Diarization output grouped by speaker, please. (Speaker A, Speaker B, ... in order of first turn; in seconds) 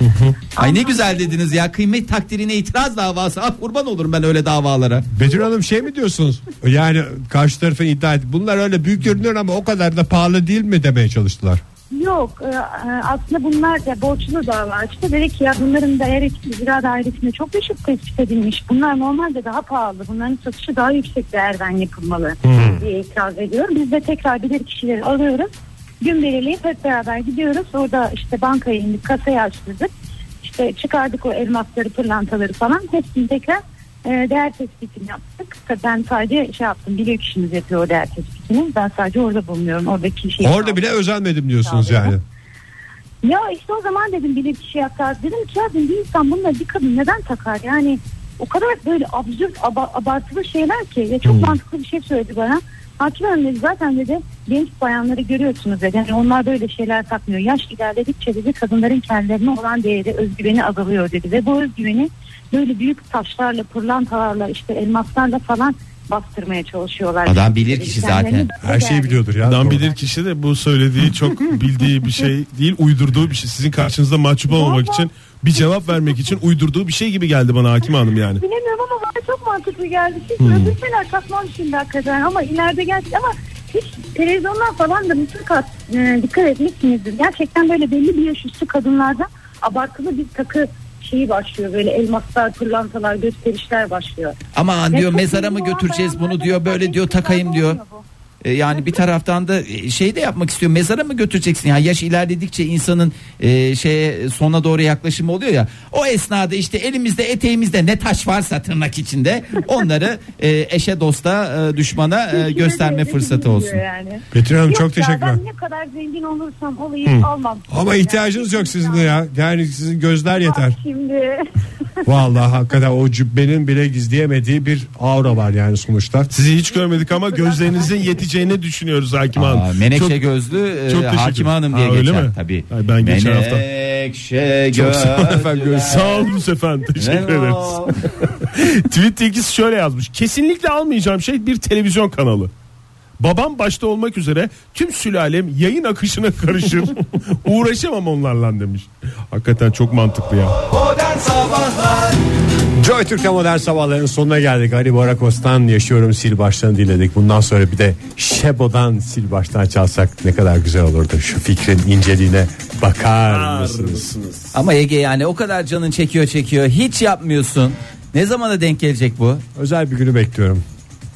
Speaker A: 0.6-1.5, 11.9-29.9, 30.4-41.0, 41.6-42.2, 43.2-69.3, 74.5-76.3, 78.4-94.3, 94.9-98.0, 98.7-99.0, 112.3-119.2, 120.3-121.4, 126.7-128.2
Speaker B: 0.6-5.1, 67.2-68.5, 94.5-97.8, 98.4-113.8, 129.3-136.0, 137.0-137.9, 164.5-169.4
Speaker C: 5.1-11.6, 22.5-22.8, 40.4-42.2, 51.2-51.5, 68.6-69.9, 114.3-115.4, 117.7-120.8, 122.0-126.3, 134.7-136.1, 152.8-164.1, 169.5-170.6
Speaker D: 69.4-78.4, 80.4-80.8, 126.3-130.2, 130.9-133.6, 135.7-142.5, 143.2-150.6, 163.3-164.5